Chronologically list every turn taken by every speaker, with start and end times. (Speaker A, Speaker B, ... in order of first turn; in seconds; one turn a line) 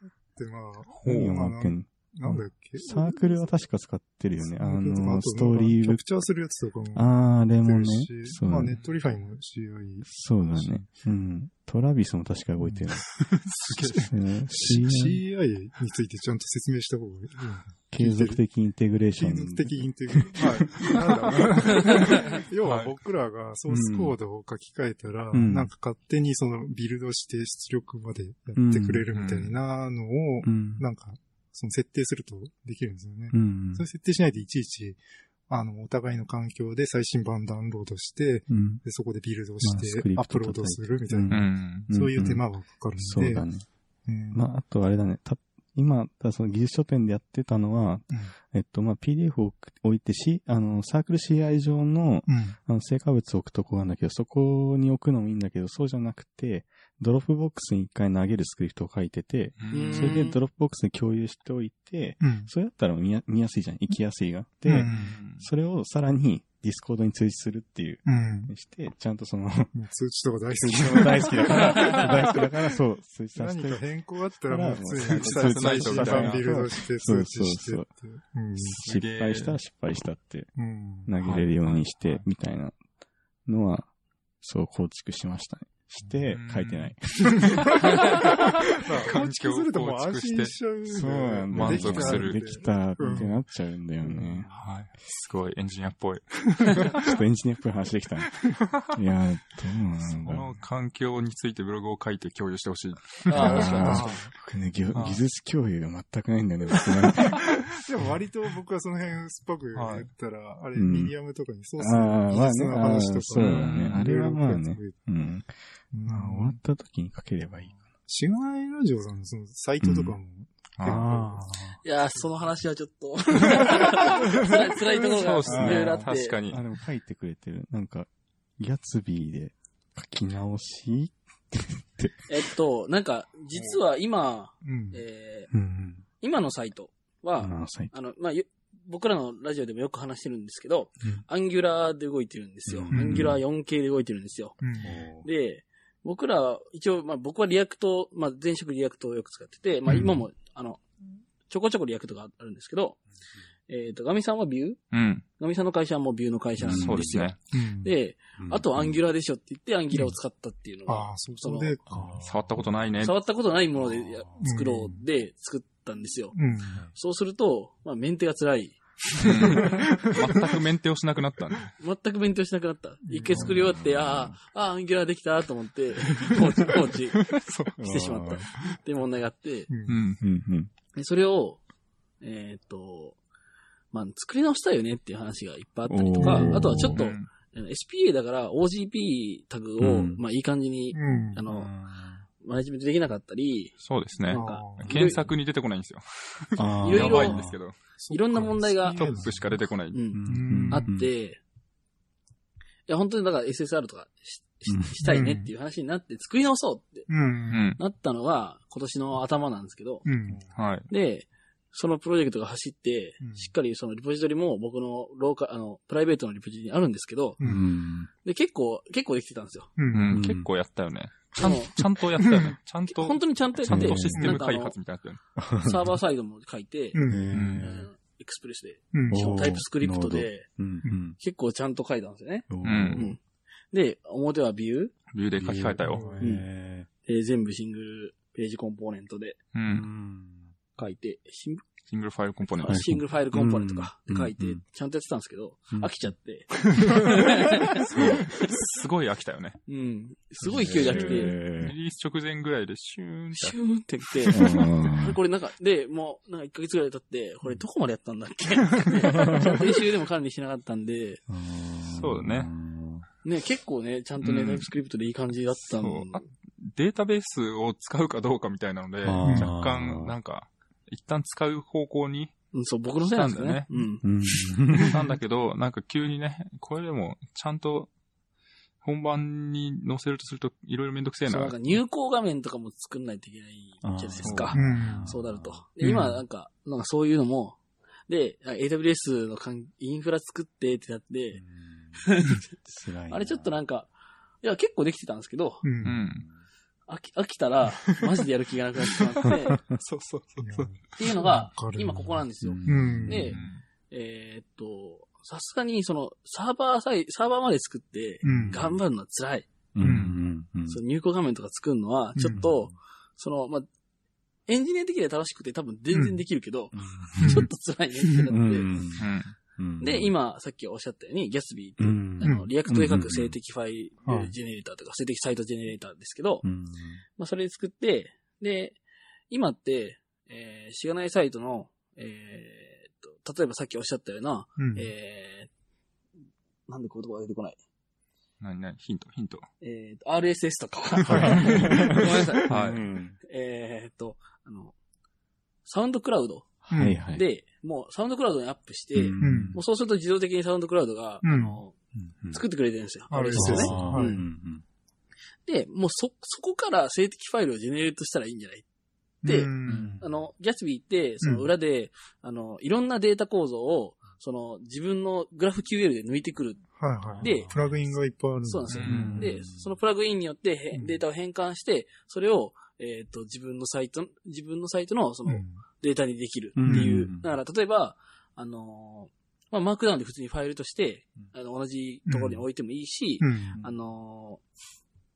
Speaker A: 0.4-3.6
Speaker B: 1.0-1.4
Speaker C: 1.0-6.0
Speaker A: 4.4-10.8
Speaker C: 7.0-8.7
Speaker C: 10.1-13.1
Speaker A: 12.6-12.9
Speaker B: 13.1-14.1
Speaker A: 13.5-18.4
Speaker C: 14.1-15.2
Speaker C: 17.9-21.5
Speaker A: 19.2-43.5
Speaker B: 21.9-22.9
Speaker C: 23.7-24.2
Speaker C: 25.3-25.7
Speaker C: 28.6-29.1
Speaker B: 29.1-29.6
Speaker C: 30.4-30.8
Speaker C: 33.3-33.9
Speaker C: 38.5-38.8
Speaker C: 39.6-42.4
Speaker B: 41.3-41.9
Speaker C: 43.0-43.6
Speaker A: 44.1-44.4
Speaker C: 44.3-69.7
Speaker A: 52.3-52.6
Speaker B: 59.6-60.2
Speaker D: 59.7-60.4
Speaker A: 62.2-62.5
Speaker A: 64.6-65.1
Speaker B: 64.9-65.5
Speaker A: 68.0-68.5
Speaker A: 69.7-72.3
Speaker C: 70.6-73.8
Speaker A: 73.4-78.8
Speaker C: 74.5-77.9
Speaker B: 75.1-76.5
Speaker B: 78.6-79.5
Speaker C: 78.8-80.5
Speaker A: 80.6-81.1
Speaker C: 81.1-82.8
Speaker B: 81.2-82.2
Speaker C: 83.5-87.8
Speaker B: 86.3-86.9
Speaker A: 87.4-93.4
Speaker D: 87.9-88.3
Speaker B: 88.2-88.4
Speaker B: 89.0-90.5
Speaker C: 90.9-94.5
Speaker B: 91.5-92.5
Speaker A: 94.0-94.6
Speaker B: 94.5-97.1
Speaker C: 96.9-100.5
Speaker B: 100.0-104.3
Speaker D: 103.3-104.2
Speaker C: 103.3-108.0
Speaker A: 103.4-104.3
Speaker B: 104.9-105.2
Speaker A: 107.7-115.0
Speaker B: 109.7-110.1
Speaker C: 110.8-111.1
Speaker C: 111.8-117.7
Speaker B: 113.4-114.0
Speaker A: 115.9-116.6
Speaker A: 118.1-121.6
Speaker C: 119.8-120.2
Speaker B: 120.8-121.0
Speaker C: 120.8-121.8
Speaker D: 121.8-126.4
Speaker B: 125.1-126.6
Speaker C: 125.5-132.3
Speaker A: 125.5-125.8
Speaker D: 132.3-135.5
Speaker B: 133.5-133.8
Speaker A: 134.6-135.0
Speaker C: 135.5-136.0
Speaker D: 136.2-144.6
Speaker C: 137.4-137.9
Speaker C: 142.7-143.4
Speaker A: 142.9-143.4
Speaker A: 144.6-145.0
Speaker C: 144.8-145.3
Speaker D: 145.2-150.8
Speaker A: 149.9-150.2
Speaker D: 151.5-153.0
Speaker D: 153.7-154.8
Speaker B: 154.9-155.2
Speaker D: 155.4-161.8
Speaker B: 156.6-157.4
Speaker C: 156.6-157.0
Speaker A: 157.5-157.9
Speaker C: 158.4-159.0
Speaker A: 159.9-160.2
Speaker A: 160.9-162.2
Speaker C: 161.9-162.9
Speaker B: 162.2-163.1
Speaker D: 163.0-166.3
Speaker C: 163.8-164.4
Speaker A: 164.4-165.0
Speaker A: 166.3-166.9
Speaker D: 166.9-169.9
Speaker B: 169.2-171.7
Speaker A: 169.6-170.4
Speaker D: 171.8-179.7
Speaker A: 173.0-173.8
Speaker C: 173.3-174.4
Speaker A: 176.3-176.7
Speaker C: 177.8-178.5
Speaker A: 179.7-180.0
Speaker B: 179.9-180.2
Speaker C: 180.2-180.7
Speaker D: 180.9-181.6
Speaker D: 182.2-183.2
Speaker D: 183.9-191.7
Speaker C: 185.9-187.0
Speaker A: 186.2-186.8
Speaker B: 186.7-187.3
Speaker C: 189.8-190.2
Speaker A: 190.9-191.4
Speaker C: 191.5-192.2
Speaker D: 192.4-195.2
Speaker B: 193.8-197.8
Speaker A: 194.3-195.0
Speaker C: 196.6-197.6
Speaker D: 196.8-197.4
Speaker A: 198.0-199.5
Speaker D: 198.1-199.1
Speaker B: 198.8-200.0
Speaker D: 199.9-201.4
Speaker C: 200.1-201.1
Speaker A: 200.2-200.9
Speaker D: 202.9-207.1
Speaker C: 204.7-205.3
Speaker A: 205.0-205.5
Speaker A: 207.1-207.8
Speaker B: 207.5-207.8
Speaker D: 207.8-210.1
Speaker A: 210.1-210.5
Speaker B: 210.5-210.9
Speaker D: 210.9-217.4
Speaker A: 213.2-213.5
Speaker A: 217.4-217.6
Speaker C: 217.4-218.1
Speaker D: 218.2-219.7
Speaker A: 219.8-220.2
Speaker B: 219.9-225.2
Speaker C: 220.1-220.5
Speaker D: 221.4-221.8
Speaker A: 222.2-222.6
Speaker D: 222.9-224.8
Speaker C: 223.6-224.2
Speaker C: 225.4-225.9
Speaker D: 225.6-227.0
Speaker A: 226.9-227.3
Speaker C: 227.1-227.9
Speaker B: 227.3-227.7
Speaker D: 227.6-230.5
Speaker A: 228.9-229.5
Speaker C: 229.1-231.2
Speaker D: 231.2-233.2
Speaker C: 232.5-233.2
Speaker B: 232.6-233.1
Speaker D: 233.7-234.9
Speaker B: 235.1-236.0
Speaker C: 235.4-236.9
Speaker A: 235.8-236.3
Speaker D: 237.1-239.4
Speaker B: 239.5-239.9
Speaker C: 239.7-240.5
Speaker D: 240.8-241.6
Speaker B: 241.9-242.9
Speaker D: 242.5-248.6
Speaker C: 242.7-244.6
Speaker B: 247.8-249.6
Speaker D: 249.7-251.4
Speaker C: 250.5-251.8
Speaker B: 250.5-253.6
Speaker D: 253.3-261.2
Speaker C: 254.3-255.2
Speaker C: 259.1-259.4
Speaker C: 261.3-263.1
Speaker B: 261.9-262.5
Speaker D: 263.2-266.2
Speaker B: 264.2-264.7
Speaker B: 265.7-272.3
Speaker C: 269.0-270.2
Speaker A: 269.2-269.5
Speaker D: 272.5-274.5
Speaker B: 273.0-273.7
Speaker C: 274.0-275.0
Speaker B: 274.8-277.9
Speaker B: 278.8-281.6
Speaker D: 281.2-291.4
Speaker C: 283.8-285.6
Speaker B: 284.2-284.6
Speaker A: 284.6-285.1
Speaker B: 285.9-286.1
Speaker C: 291.4-292.1
Speaker D: 292.0-292.5
Speaker C: 292.6-293.6
Speaker D: 293.1-293.9
Speaker D: 294.4-295.6
Speaker A: 295.6-296.0
Speaker B: 295.8-296.3
Speaker C: 295.8-296.4
Speaker D: 296.9-299.6
Speaker B: 299.8-300.7
Speaker A: 300.4-303.4
Speaker D: 301.0-309.5
Speaker C: 302.4-303.4
Speaker B: 303.3-303.6
Speaker A: 308.2-308.8
Speaker C: 308.3-308.6
Speaker C: 309.8-310.8
Speaker A: 309.8-310.2
Speaker D: 310.7-313.7
Speaker A: 312.2-312.5
Speaker C: 312.3-312.7
Speaker D: 314.5-318.7
Speaker A: 315.9-316.2
Speaker C: 316.7-317.5
Speaker A: 317.2-317.5
Speaker A: 318.0-318.3
Speaker C: 318.3-320.1
Speaker B: 319.0-319.4
Speaker D: 319.8-326.4
Speaker C: 321.8-323.4
Speaker A: 322.2-322.5
Speaker A: 324.1-324.3
Speaker C: 326.4-327.0
Speaker D: 327.2-328.8
Speaker D: 329.3-335.5
Speaker A: 334.6-334.9
Speaker D: 336.7-337.6
Speaker B: 338.4-339.4
Speaker D: 339.6-344.7
Speaker A: 341.0-341.9
Speaker B: 341.1-341.7
Speaker C: 341.1-343.2
Speaker B: 342.4-342.9
Speaker D: 345.6-346.5
Speaker C: 346.6-347.2
Speaker A: 346.7-347.0
Speaker D: 347.1-351.8
Speaker C: 348.9-349.6
Speaker A: 349.2-349.6
Speaker A: 351.2-351.6
Speaker C: 351.9-352.4
Speaker D: 352.3-354.2
Speaker A: 353.1-354.2
Speaker C: 353.3-354.6
Speaker D: 355.4-358.6
Speaker A: 359.2-360.0
Speaker D: 359.2-367.5
Speaker C: 359.6-360.1
Speaker A: 361.2-361.5
Speaker A: 366.8-369.3
Speaker C: 367.2-367.9
Speaker D: 368.4-384.4
Speaker B: 368.7-369.2
Speaker C: 368.9-369.7
Speaker A: 370.7-371.0
Speaker A: 375.3-375.6
Speaker C: 376.6-377.3
Speaker A: 376.7-377.1
Speaker A: 382.1-382.4
Speaker A: 383.2-383.6